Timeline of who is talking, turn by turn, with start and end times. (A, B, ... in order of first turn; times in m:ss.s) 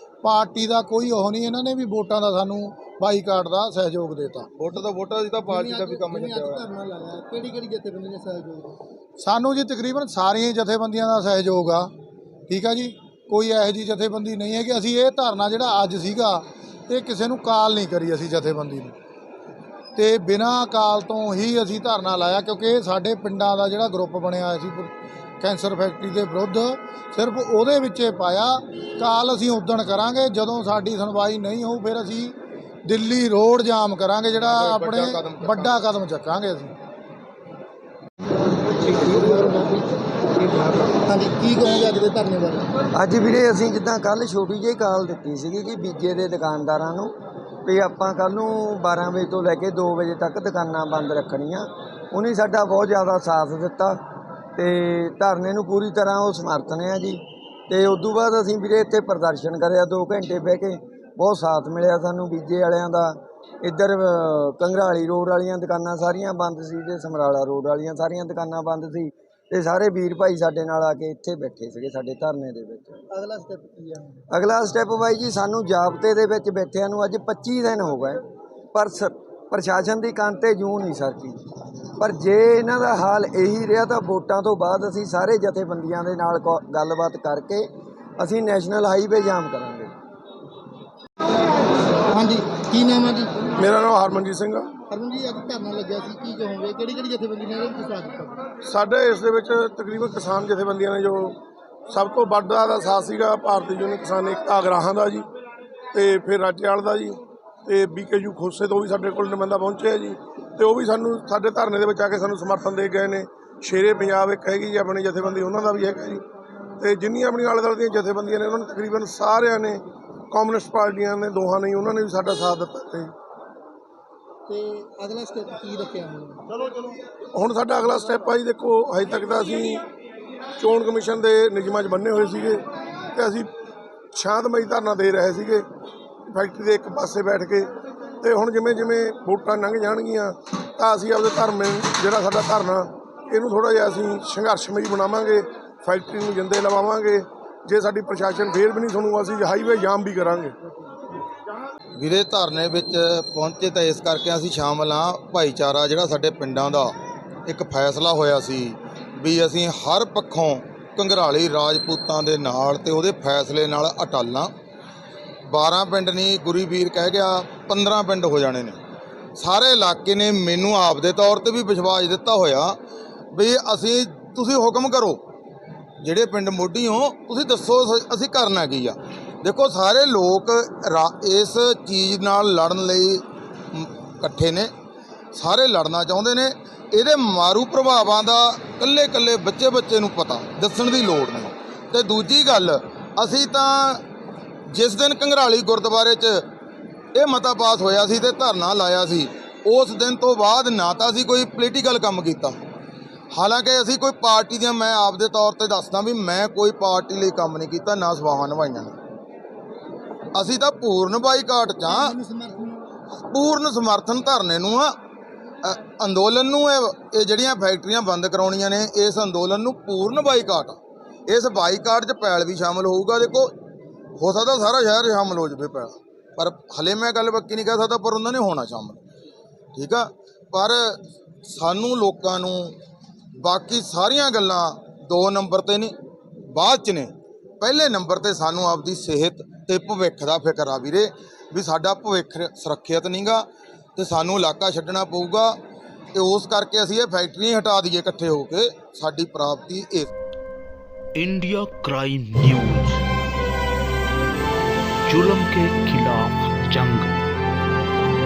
0:00.2-0:04.5 A
0:04.5-0:06.6 B
0:05.4-0:08.8 C
0:09.2-0:11.9 A
0:12.5-0:18.9 A
0:20.0-0:32.3 A
0:32.8-0:36.7 A
0:34.4-0:35.8 B
0:38.8-0:42.6 C
0:42.9-0:47.1 D
0:47.6-0:54.0 D
0:54.6-1:13.0 D
1:13.1-1:14.2 C
1:14.3-1:18.2 D
1:18.7-1:21.4 D
1:22.0-1:29.9 D
1:32.1-1:33.5 C
1:33.5-1:34.8 E
1:34.9-1:38.4 C
1:38.6-1:41.4 E
1:41.9-1:45.2 E
1:45.9-1:56.2 E
1:56.8-2:03.1 E
2:04.5-2:06.4 C
2:07.3-2:09.8 E
2:10.6-2:12.6 E
2:13.1-2:13.5 E
2:14.1-2:15.6 E
2:16.3-2:17.7 E
2:18.2-2:30.6 E
2:32.0-2:36.9 B
2:37.5-2:44.5 B
2:45.5-2:48.8 B
2:49.4-2:52.8 B
2:53.3-2:55.2 B
2:56.0-3:04.7 B
3:05.3-3:14.0 B
3:14.7-3:16.4 B
3:17.1-3:22.5 B
3:23.3-3:28.9 B
3:30.3-3:32.2 B
3:31.8-3:32.8 C
3:33.1-3:34.9 B
3:35.6-3:40.8 B
3:41.3-3:43.5 B
3:44.2-3:49.0 B
3:49.7-3:50.9 B
3:51.4-3:52.8 B
3:53.4-3:55.9 B
3:56.5-4:05.6 B
4:06.1-4:10.1 B
4:11.1-4:13.0 F
4:15.0-4:17.1 F